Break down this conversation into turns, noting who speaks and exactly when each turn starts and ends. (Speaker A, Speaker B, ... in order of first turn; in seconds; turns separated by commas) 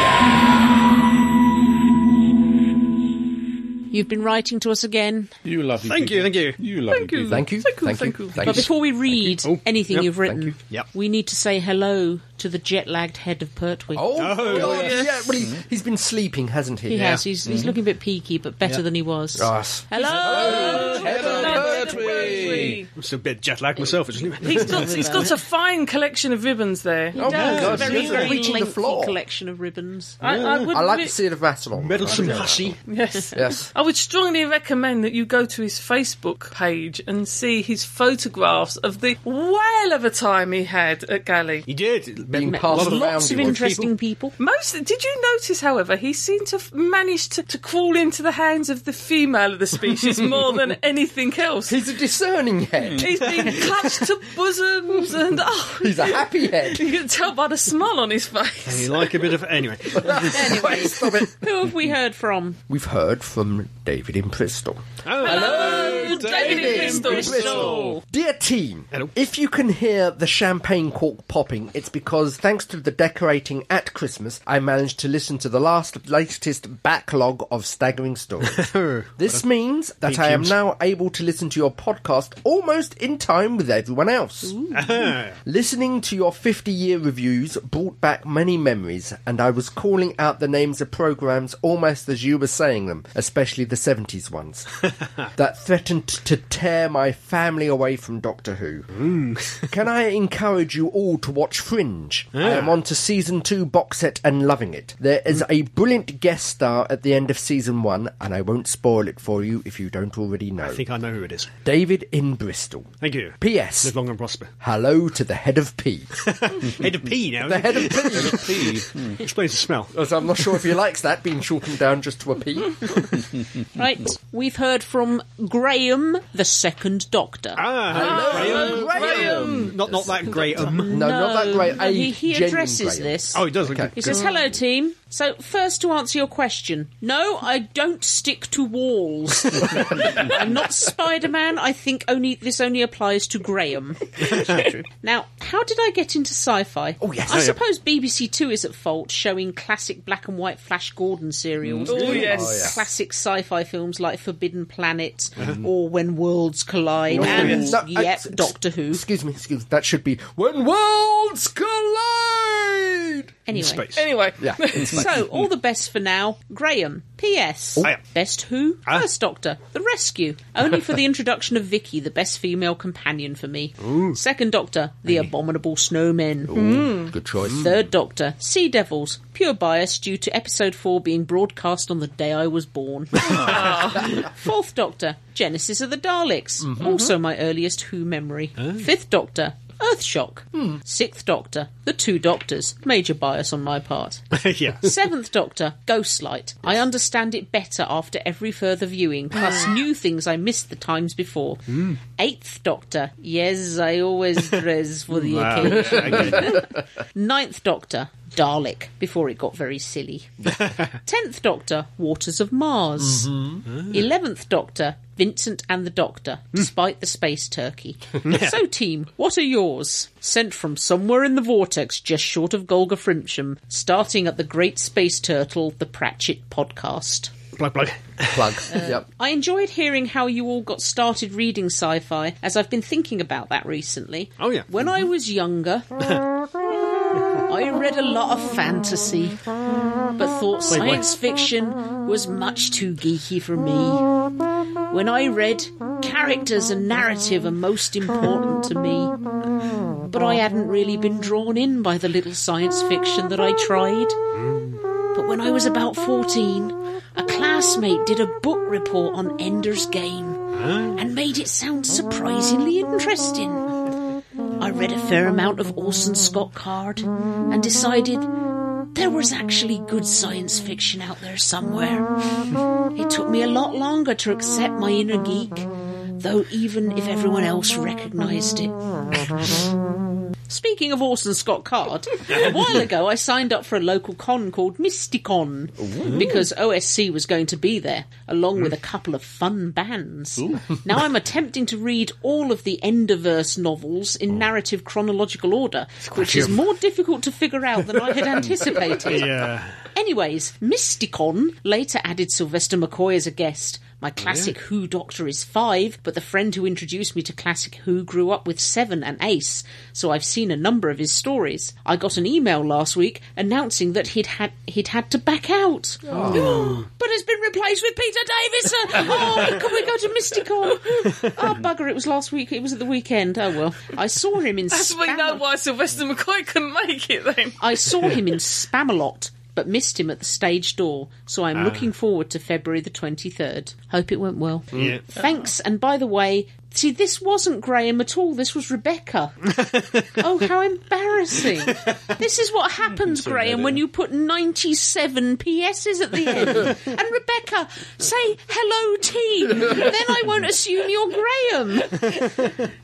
Speaker A: 3.9-5.3, Speaker B: 5.4-7.5, Speaker C: 5.8-6.6, Speaker D: 6.9-8.5, Speaker E: 7.3-8.7, Speaker A: 8.4-14.2, Speaker C: 9.2-10.1, Speaker E: 10.2-10.5, Speaker E: 13.9-17.3, Speaker C: 14.2-15.1, Speaker D: 14.4-15.2, Speaker A: 16.9-21.3, Speaker B: 17.4-17.7, Speaker E: 19.4-22.7, Speaker D: 19.9-22.9, Speaker B: 20.1-22.8, Speaker C: 22.9-25.3, Speaker A: 24.4-25.3, Speaker D: 24.4-28.3, Speaker A: 27.1-30.2, Speaker E: 27.1-29.2, Speaker C: 27.2-28.4, Speaker D: 30.2-31.1, Speaker C: 30.2-30.8, Speaker E: 30.6-32.8, Speaker C: 31.8-32.8, Speaker D: 32.1-41.7, Speaker E: 33.3-33.7, Speaker C: 41.7-43.9, Speaker E: 42.3-43.7, Speaker A: 42.4-44.4, Speaker D: 44.4-51.8, Speaker E: 51.7-53.6, Speaker D: 53.0-59.3, Speaker E: 55.7-56.9, Speaker C: 58.6-60.8, Speaker E: 59.9-61.3, Speaker A: 60.3-62.6, Speaker E: 62.7-84.8, Speaker C: 65.0-65.7, Speaker D: 65.2-67.8, Speaker A: 65.3-68.0, Speaker B: 65.4-67.9, Speaker C: 78.5-79.4, Speaker C: 80.0-80.5, Speaker A: 84.4-85.1, Speaker C: 84.7-85.4, Speaker E: 85.4-94.8, Speaker E: 95.3-98.9, Speaker C: 98.9-99.7, Speaker E: 99.7-110.8, Speaker C: 102.3-102.7, Speaker C: 110.6-111.5, Speaker E: 111.6-113.9, Speaker C: 113.0-114.5, Speaker E: 114.6-116.2, Speaker C: 116.2-119.9, Speaker E: 117.4-118.6, Speaker B: 118.1-119.2, Speaker E: 119.9-123.1, Speaker A: 123.7-127.6, Speaker C: 127.6-130.9, Speaker E: 127.9-133.9, Speaker D: 127.9-129.8, Speaker B: 128.5-129.5, Speaker A: 130.6-159.0, Speaker C: 133.3-134.2, Speaker E: 147.0-147.5, Speaker C: 147.3-147.6, Speaker B: 151.6-152.1, Speaker D: 151.9-152.7, Speaker E: 152.0-152.8, Speaker E: 157.1-163.3, Speaker C: 157.1-157.7, Speaker D: 157.3-157.7, Speaker A: 163.4-164.0, Speaker C: 163.5-164.1, Speaker D: 163.9-165.1, Speaker E: 164.4-164.8, Speaker A: 164.7-176.6, Speaker C: 173.8-174.2, Speaker E: 176.5-177.8, Speaker D: 176.5-177.1, Speaker A: 177.4-227.3, Speaker D: 183.3-184.1, Speaker E: 186.6-186.9, Speaker D: 186.8-187.1, Speaker C: 194.3-194.9, Speaker D: 199.4-199.7, Speaker C: 205.1-206.6, Speaker E: 205.6-206.7, Speaker C: 210.5-210.9, Speaker E: 213.0-213.6, Speaker C: 213.7-214.0, Speaker C: 218.2-218.6, Speaker C: 227.6-228.6, Speaker E: 228.3-229.1, Speaker A: 228.7-235.8, Speaker C: 234.4-235.1, Speaker A: 237.3-239.4, Speaker A: 240.2-244.0, Speaker C: 240.7-241.0, Speaker A: 244.9-249.2, Speaker A: 250.0-254.2, Speaker C: 254.3-254.8, Speaker A: 255.1-260.4, Speaker C: 260.5-261.0, Speaker A: 260.9-263.7, Speaker A: 264.6-268.3, Speaker A: 268.9-272.1, Speaker A: 272.9-275.7, Speaker A: 276.2-279.6, Speaker A: 280.5-325.4, Speaker E: 285.8-286.2, Speaker B: 290.4-290.6, Speaker E: 296.1-296.5, Speaker C: 298.8-299.8, Speaker C: 304.2-304.5, Speaker E: 316.1-316.6, Speaker C: 316.2-316.7, Speaker D: 324.7-327.6, Speaker A: 327.6-352.4, Speaker C: 331.5-331.9, Speaker E: 334.7-335.0, Speaker B: 343.0-343.8